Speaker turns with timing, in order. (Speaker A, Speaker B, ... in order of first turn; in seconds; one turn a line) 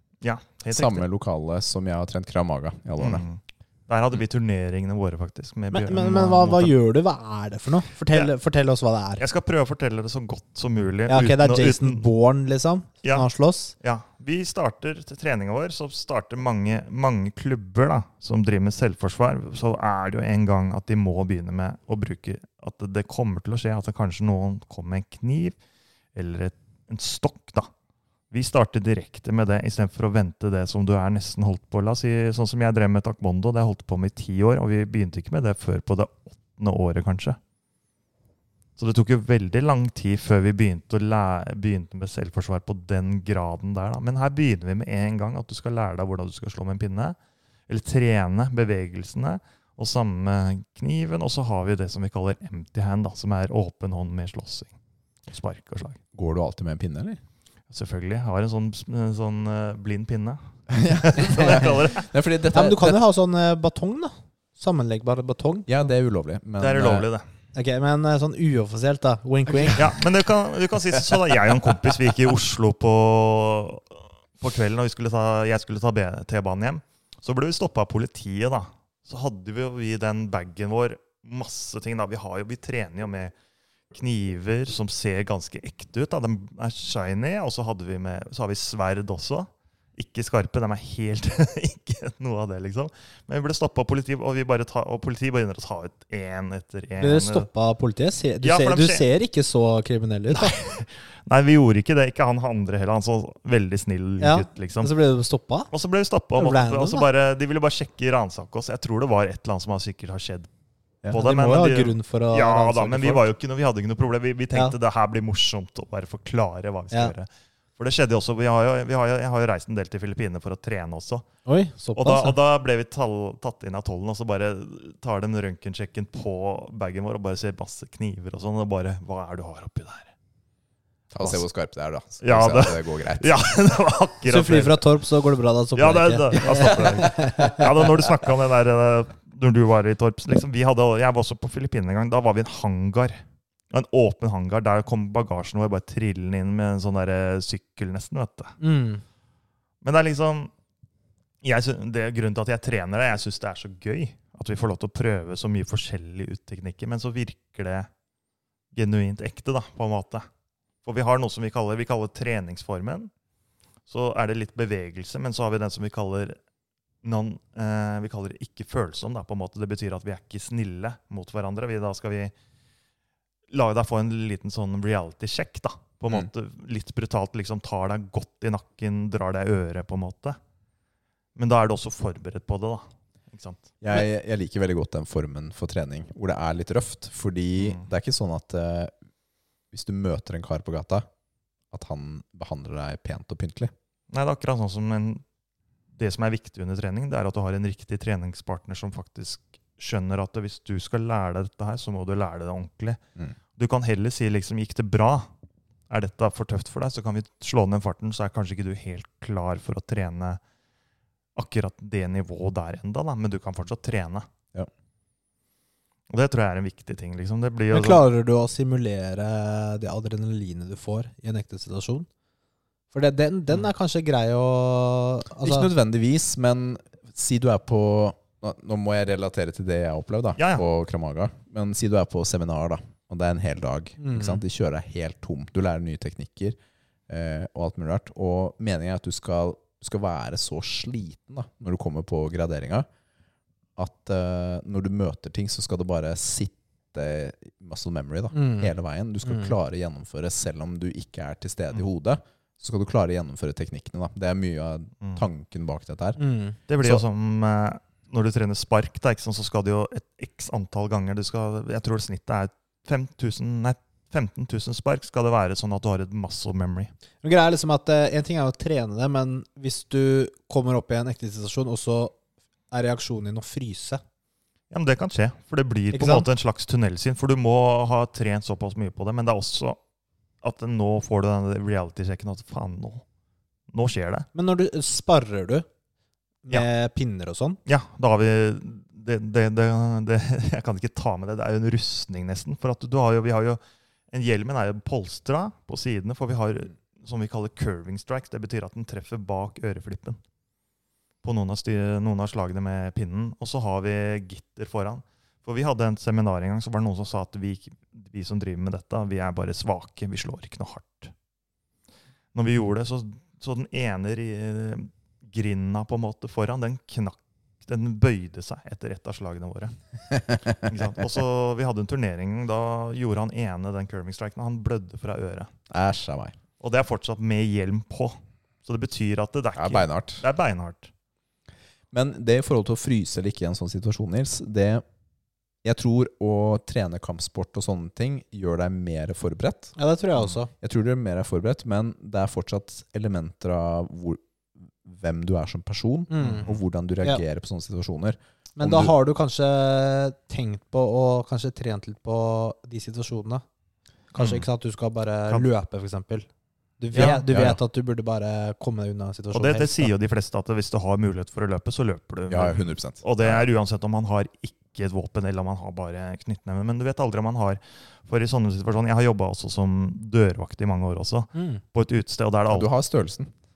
Speaker A: 0.2-1.1
Speaker B: 0.7-3.2
Speaker A: 3.0-6.7
Speaker C: 5.7-9.3
Speaker A: 9.2-12.1
Speaker C: 11.1-13.7
Speaker A: 13.8-25.6
Speaker A: 26.1-27.7
Speaker A: 28.3-37.4
Speaker A: 38.8-47.2
Speaker A: 47.7-54.7
Speaker A: 55.3-56.0
Speaker B: 56.1-57.2
Speaker A: 57.7-62.1
Speaker B: 60.7-63.0
Speaker C: 62.5-65.7
Speaker B: 65.7-67.1
Speaker A: 66.6-67.2
Speaker C: 67.5-69.9
Speaker B: 69.5-69.9
Speaker A: 69.8-83.3
Speaker B: 70.9-71.9
Speaker A: 83.9-97.5
Speaker C: 97.0-100.6
Speaker A: 98.4-99.1
Speaker A: 100.3-104.9
Speaker C: 104.2-105.7
Speaker A: 105.7-110.5
Speaker C: 106.4-107.1
Speaker A: 111.1-121.3
Speaker C: 111.1-113.3
Speaker C: 121.5-122.4
Speaker A: 122.0-130.1
Speaker B: 131.1-133.3
Speaker A: 132.2-134.8
Speaker C: 134.3-137.9
Speaker A: 135.8-143.2
Speaker A: 143.7-148.6
Speaker C: 148.6-149.0
Speaker A: 149.8-150.5
Speaker A: 151.4-157.9
Speaker A: 158.7-160.3
Speaker A: 160.8-163.1
Speaker A: 163.9-166.4
Speaker A: 167.0-172.3
Speaker A: 173.5-180.4
Speaker A: 181.4-183.7
Speaker B: 183.8-188.9
Speaker A: 187.6-187.8
Speaker B: 189.7-191.1
Speaker B: 191.7-193.7
Speaker A: 194.1-195.2
Speaker A: 195.9-203.0
Speaker A: 203.6-205.3
Speaker A: 205.9-210.4
Speaker A: 211.4-214.3
Speaker A: 216.1-218.0
Speaker C: 217.7-222.1
Speaker C: 222.9-225.7
Speaker B: 225.4-236.6
Speaker A: 230.4-230.7
Speaker C: 234.0-234.4
Speaker B: 237.1-242.9
Speaker B: 243.8-256.2
Speaker C: 248.3-249.6
Speaker C: 256.2-256.6
Speaker A: 256.7-266.9
Speaker C: 267.2-272.1
Speaker C: 272.7-274.0
Speaker A: 274.7-279.8
Speaker C: 275.9-276.3
Speaker A: 280.4-283.0
Speaker A: 283.7-284.3
Speaker C: 284.3-285.6
Speaker C: 286.4-287.6
Speaker A: 287.7-293.6
Speaker A: 294.1-300.2
Speaker A: 301.2-311.1
Speaker A: 312.3-319.7
Speaker B: 320.1-320.6
Speaker A: 320.5-325.5
Speaker B: 325.7-326.4
Speaker A: 326.6-330.9
Speaker B: 329.6-330.2
Speaker B: 331.9-334.8
Speaker B: 335.6-339.7
Speaker C: 339.8-340.5
Speaker B: 340.6-348.9
Speaker C: 346.1-346.5
Speaker A: 346.2-346.5
Speaker C: 348.6-353.4
Speaker C: 354.1-356.3
Speaker A: 354.2-354.5
Speaker C: 356.8-359.9
Speaker A: 356.9-357.2
Speaker B: 356.9-357.6
Speaker A: 359.3-372.7
Speaker B: 362.3-363.5
Speaker C: 371.4-371.6
Speaker B: 372.5-373.3